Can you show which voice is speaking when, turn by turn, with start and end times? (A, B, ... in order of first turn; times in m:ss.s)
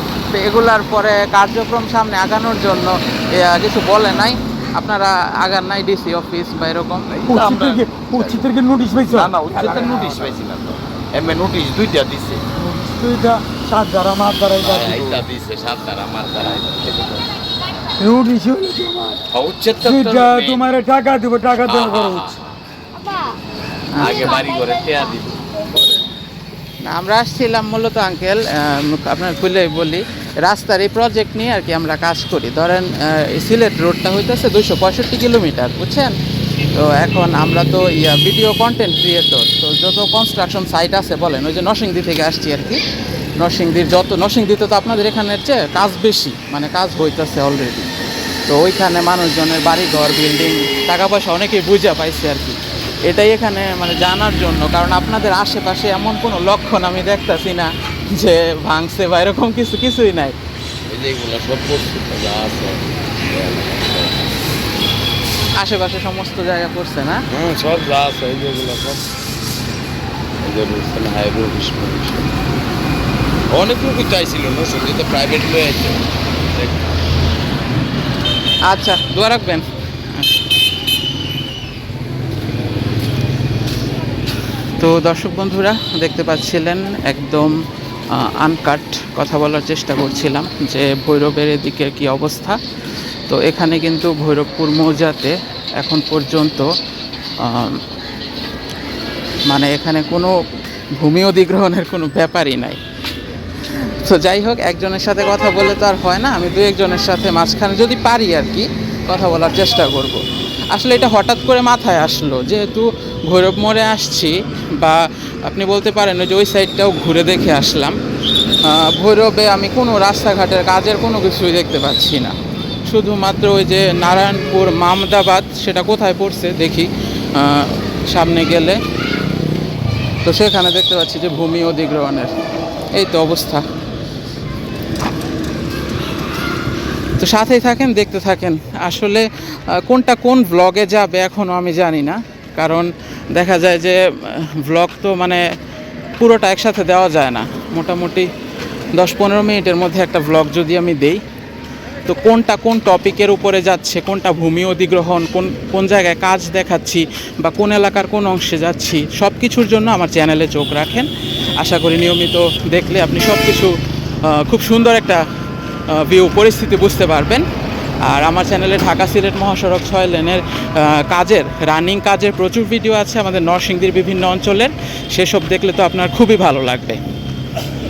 0:00.3-0:07.1 A
0:07.1-0:08.4 B
0:07.3-0:10.0 C
0:09.1-0:12.4 B
0:12.6-0:15.2 C
0:14.6-0:17.3 B
0:18.0-0:19.2 C
0:19.3-0:20.6 B
0:19.8-0:22.3 C
0:21.6-0:22.6 B
0:23.9-0:24.4 A
0:24.0-0:26.0 B
0:26.8-0:36.2 A
0:36.7-0:42.8 A
0:43.4-0:47.9 A
0:48.5-1:00.4 A
1:00.9-1:04.3 B
1:05.6-1:07.2 A
1:07.3-1:09.0 B
1:10.4-1:12.3 B
1:13.5-1:16.7 B
1:18.7-1:20.4 A
1:24.8-1:27.6 A
1:28.1-1:32.6 A
1:33.3-1:36.7 A
1:37.4-1:37.8 A
1:39.5-1:40.3 A
1:41.0-1:42.8 A
1:43.7-1:58.0 A
1:58.6-2:02.4 A
2:02.9-2:08.8 A
2:10.2-2:12.3 A
2:12.9-2:13.6 A
2:17.2-2:25.4 A
2:26.2-2:28.3 A
2:29.0-2:31.2 A
2:32.0-2:45.2 A
2:45.9-2:47.4 A
2:48.0-2:57.0 A